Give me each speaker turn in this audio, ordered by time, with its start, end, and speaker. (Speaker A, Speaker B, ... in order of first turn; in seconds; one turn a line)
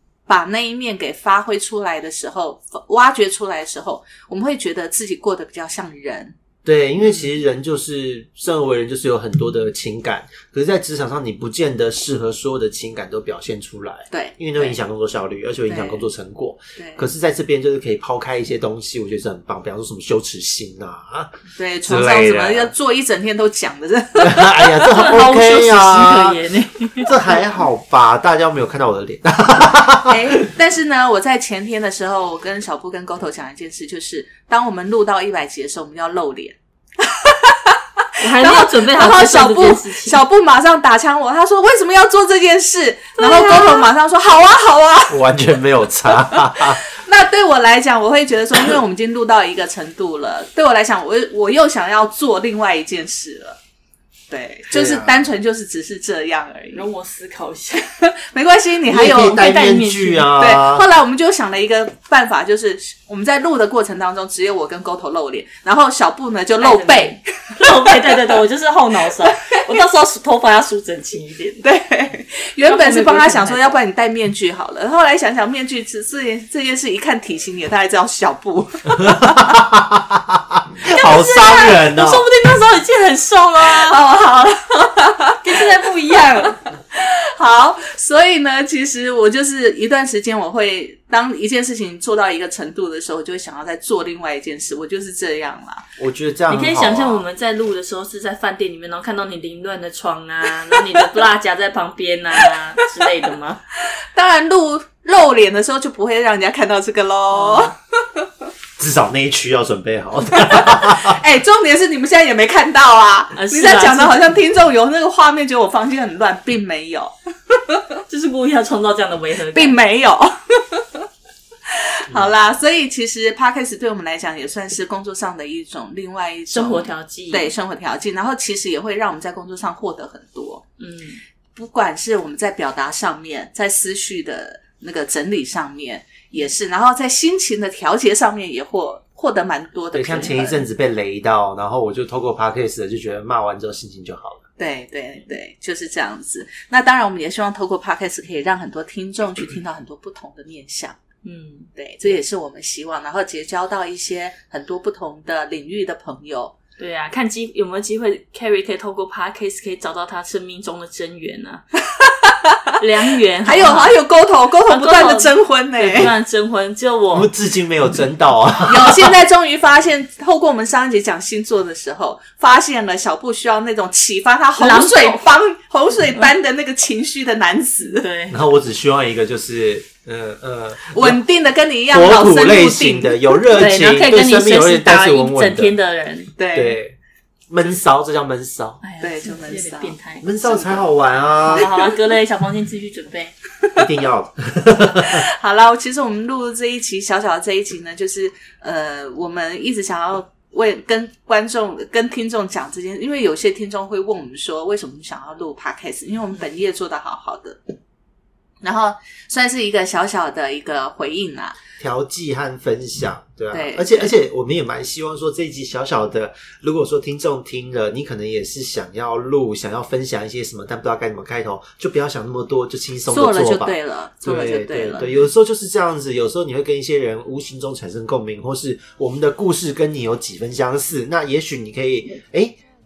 Speaker A: 0.3-6.3
Speaker B: 6.6-21.3
Speaker A: 14.1-14.8
Speaker A: 15.7-16.0
Speaker A: 16.8-17.0
Speaker A: 21.6-24.6
Speaker B: 21.8-22.7
Speaker B: 24.2-26.4
Speaker C: 24.7-27.1
Speaker B: 27.0-30.4
Speaker A: 30.1-45.3
Speaker C: 38.2-40.2
Speaker C: 43.2-43.9
Speaker B: 45.1-46.9
Speaker A: 46.1-53.6
Speaker A: 54.3-56.8
Speaker B: 54.7-55.2
Speaker C: 56.7-57.9
Speaker A: 58.0-59.5
Speaker B: 58.9-60.9
Speaker C: 59.1-60.4
Speaker A: 60.4-68.3
Speaker C: 66.6-71.7
Speaker A: 69.2-69.6
Speaker A: 71.6-79.6
Speaker C: 72.6-73.8
Speaker B: 78.9-82.2
Speaker C: 80.9-84.0
Speaker A: 83.6-95.8
Speaker C: 85.4-86.6
Speaker B: 96.0-97.2
Speaker C: 96.5-103.6
Speaker A: 103.9-108.3
Speaker C: 107.3-107.7
Speaker B: 108.8-111.2
Speaker A: 110.3-117.8
Speaker C: 113.3-114.3
Speaker C: 118.1-119.8
Speaker A: 119.5-121.0
Speaker A: 121.7-130.6
Speaker C: 126.5-127.5
Speaker C: 130.8-131.2
Speaker A: 131.6-140.6
Speaker B: 139.9-144.4
Speaker A: 144.6-151.0
Speaker C: 151.2-151.7
Speaker A: 151.7-156.5
Speaker C: 156.8-161.6
Speaker A: 161.9-162.8
Speaker C: 162.8-164.0
Speaker A: 163.4-166.1
Speaker C: 164.7-167.3
Speaker B: 167.1-169.1
Speaker A: 168.7-178.1
Speaker C: 174.6-175.4
Speaker C: 178.0-178.4
Speaker B: 178.3-181.2
Speaker A: 180.9-183.4
Speaker B: 181.9-185.7
Speaker C: 183.5-186.3
Speaker A: 186.4-186.8
Speaker B: 186.5-186.9
Speaker B: 187.5-188.8
Speaker C: 188.8-190.3
Speaker A: 189.0-189.9
Speaker B: 190.2-191.7
Speaker C: 191.5-193.3
Speaker B: 193.8-195.2
Speaker A: 194.9-207.6
Speaker A: 208.6-211.6
Speaker B: 211.8-232.5
Speaker A: 213.5-214.1
Speaker A: 223.1-225.2